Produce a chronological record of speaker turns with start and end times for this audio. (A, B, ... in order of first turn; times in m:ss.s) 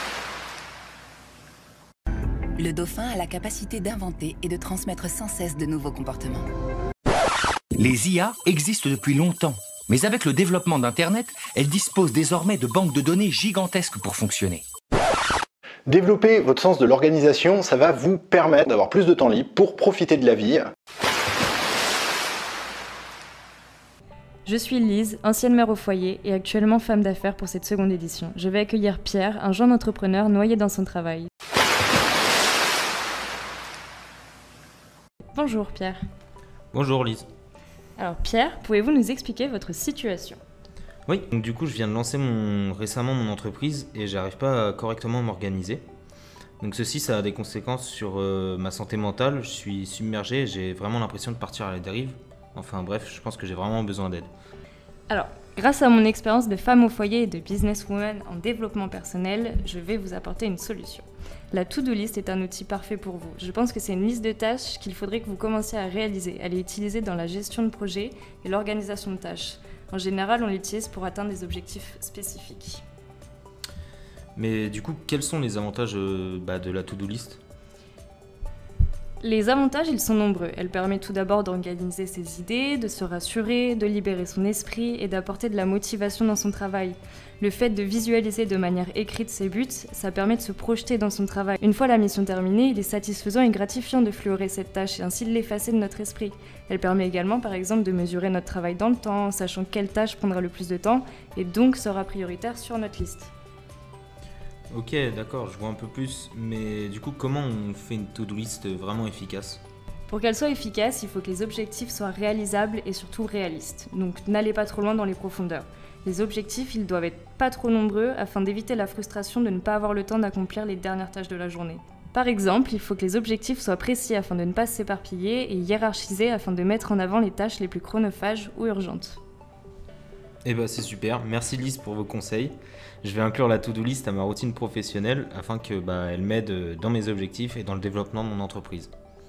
0:02.6-0:06.5 A
0:07.8-0:14.7 B
0:15.9-0:20.7 C
0:24.5-0:31.3 D
0:35.4-0:36.0 D
0:36.7-0:37.3 E
0:38.0-0:40.4 D
0:41.1-0:45.8 E
0:46.6-0:54.3 E
0:55.1-1:12.8 D
1:14.4-1:17.4 E
1:19.2-1:43.3 D
1:44.7-1:49.6 E
1:50.1-2:09.2 D
2:10.4-2:18.9 E